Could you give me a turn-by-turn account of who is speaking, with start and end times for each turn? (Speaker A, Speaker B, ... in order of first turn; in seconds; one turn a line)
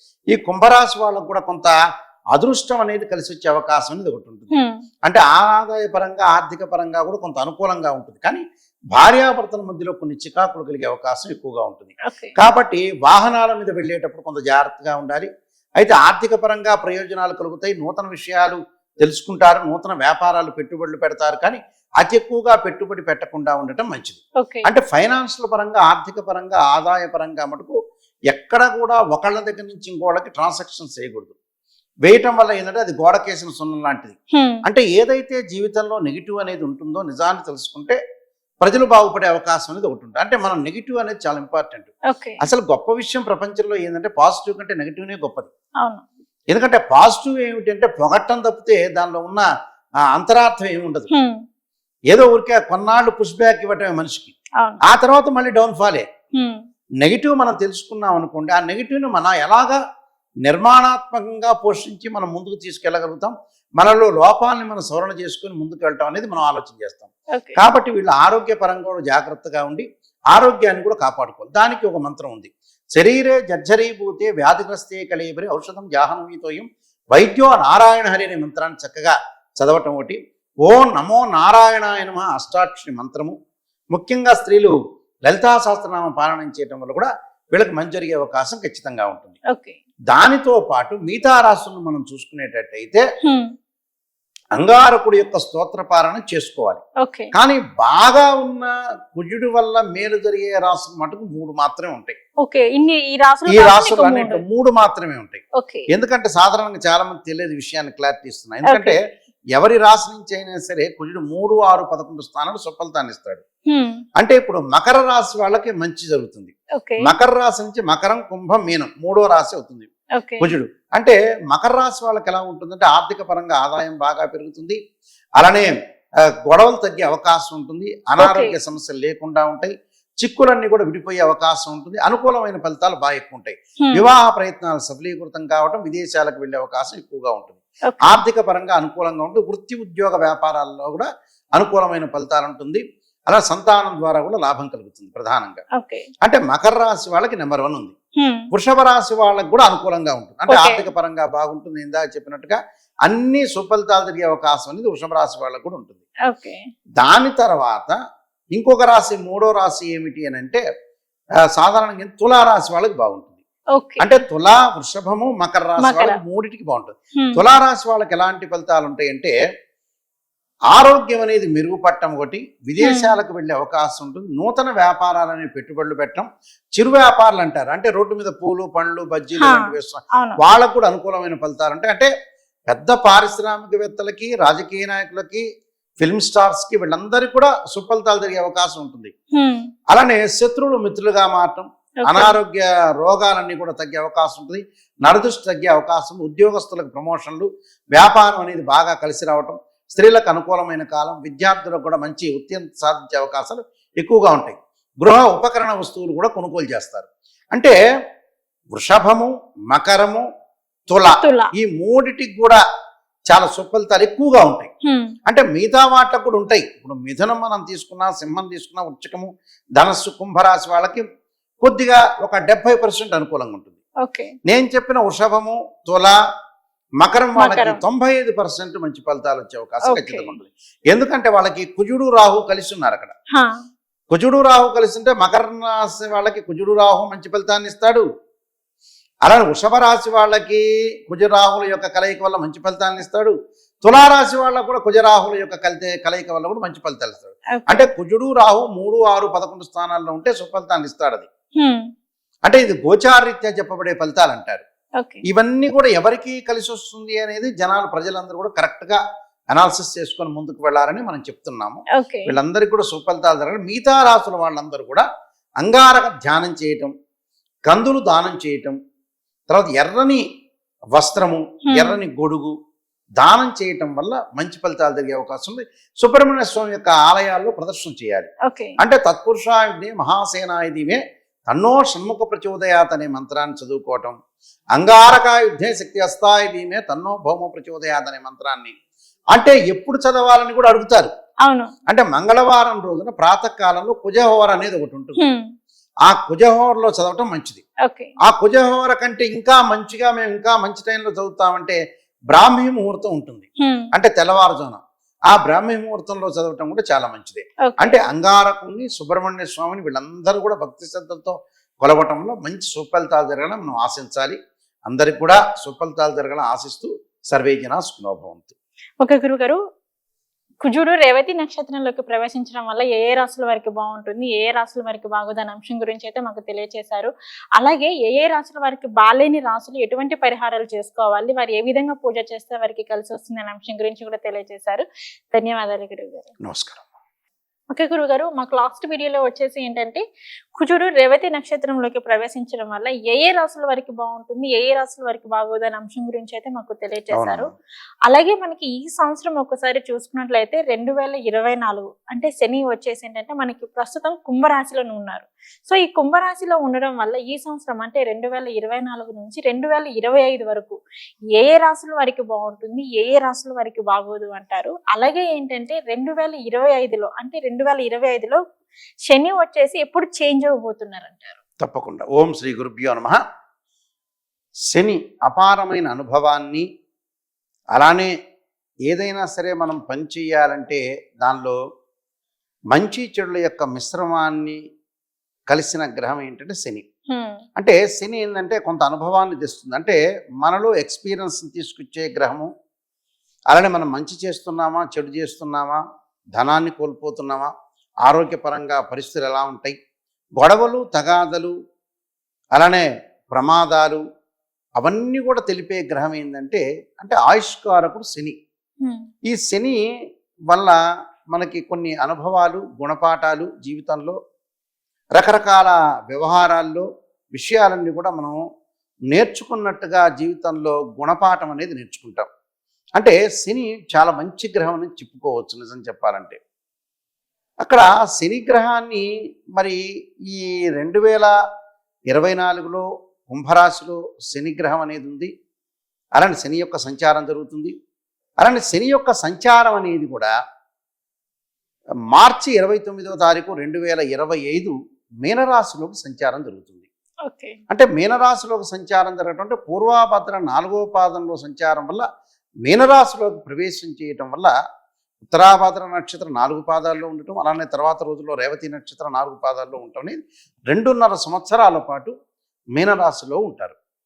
Speaker A: 0.3-1.7
Speaker A: 2.3-4.5
Speaker A: 5.0-8.4
Speaker A: 8.9-27.7
Speaker B: 12.1-12.3
Speaker A: 28.3-31.3
Speaker A: 32.0-38.0
Speaker B: 34.3-34.6
Speaker A: 38.6-45.5
Speaker B: 42.1-42.4
Speaker A: 46.5-49.5
Speaker A: 50.1-51.1
Speaker B: 51.1-51.4
Speaker A: 52.1-54.3
Speaker A: 54.9-56.0
Speaker A: 57.0-59.8
Speaker A: 60.4-83.3
Speaker A: 83.9-89.4
Speaker B: 89.5-89.8
Speaker A: 90.1-93.0
Speaker B: 93.2-93.5
Speaker A: 94.5-96.8
Speaker B: 97.0-97.3
Speaker A: 97.3-102.2
Speaker B: 102.4-104.4
Speaker A: 103.5-108.9
Speaker B: 105.6-105.9
Speaker B: 108.6-109.0
Speaker A: 109.5-113.4
Speaker B: 113.7-114.0
Speaker A: 114.2-116.5
Speaker B: 116.8-117.1
Speaker A: 117.0-119.9
Speaker B: 120.2-120.4
Speaker A: 120.4-124.8
Speaker A: 125.4-125.7
Speaker A: 126.4-141.1
Speaker B: 128.2-128.5
Speaker B: 137.9-138.2
Speaker A: 141.6-145.6
Speaker B: 145.7-146.1
Speaker A: 146.2-147.9
Speaker B: 148.2-148.5
Speaker A: 148.5-156.0
Speaker B: 150.5-150.8
Speaker B: 156.3-156.6
Speaker A: 157.0-157.9
Speaker A: 158.5-160.6
Speaker A: 161.5-163.3
Speaker B: 163.7-164.1
Speaker A: 164.0-169.3
Speaker B: 165.8-166.2
Speaker A: 170.7-182.1
Speaker B: 172.8-173.1
Speaker B: 179.4-180.4
Speaker A: 182.7-185.4
Speaker A: 186.0-189.1
Speaker B: 189.3-189.6
Speaker A: 189.9-207.7
Speaker B: 192.0-192.3
Speaker A: 208.7-210.2
Speaker A: 210.9-212.6
Speaker B: 211.2-211.5
Speaker A: 213.3-214.7
Speaker B: 214.9-215.1
Speaker A: 215.3-221.0
Speaker A: 221.6-223.8
Speaker B: 224.0-224.3
Speaker A: 224.5-226.1
Speaker A: 227.0-233.1
Speaker B: 227.4-227.8
Speaker B: 229.8-230.3
Speaker B: 233.3-233.6
Speaker A: 234.1-238.0
Speaker A: 239.2-243.3
Speaker A: 243.8-251.3
Speaker B: 247.5-247.8
Speaker A: 252.4-254.6
Speaker A: 255.3-259.0
Speaker A: 259.5-265.0
Speaker B: 261.9-262.3
Speaker A: 265.6-266.9
Speaker A: 267.7-268.8
Speaker A: 269.5-270.2
Speaker A: 270.9-272.5
Speaker B: 271.7-272.0
Speaker A: 273.2-284.1
Speaker B: 278.5-278.7
Speaker A: 284.8-288.7
Speaker A: 289.3-291.1
Speaker B: 291.4-291.7
Speaker A: 291.9-295.2
Speaker A: 296.1-297.6
Speaker B: 297.8-298.1
Speaker A: 298.2-301.8
Speaker A: 302.3-304.8
Speaker B: 303.6-303.9
Speaker A: 305.3-314.4
Speaker B: 307.6-308.0
Speaker A: 314.9-318.5
Speaker B: 319.0-319.6
Speaker B: 320.6-336.3
Speaker A: 336.4-336.8
Speaker B: 337.7-340.0
Speaker B: 340.6-347.5
Speaker A: 347.1-347.4
Speaker B: 348.1-360.8
Speaker B: 361.3-368.4
Speaker B: 369.1-371.4
Speaker A: 371.6-373.2
Speaker A: 374.7-376.6
Speaker A: 377.7-378.1
Speaker A: 378.9-381.6
Speaker A: 382.7-384.6
Speaker A: 385.5-386.8
Speaker B: 387.1-387.4
Speaker A: 387.6-392.5
Speaker A: 393.5-395.8
Speaker A: 396.4-397.5
Speaker A: 398.1-399.7
Speaker A: 400.4-401.5
Speaker A: 402.6-404.0
Speaker A: 404.8-408.3
Speaker A: 409.3-409.8
Speaker A: 411.3-414.1
Speaker A: 415.2-416.8
Speaker A: 417.4-418.4
Speaker A: 419.1-422.3
Speaker A: 423.0-426.4
Speaker A: 427.6-429.0
Speaker A: 430.3-431.3
Speaker A: 432.1-435.3
Speaker A: 436.2-437.7
Speaker A: 438.4-440.3
Speaker A: 442.1-444.7
Speaker A: 445.2-446.9
Speaker B: 447.3-447.6
Speaker A: 447.7-452.0
Speaker A: 452.6-454.5
Speaker A: 455.3-460.2
Speaker A: 460.7-462.1
Speaker A: 462.8-463.8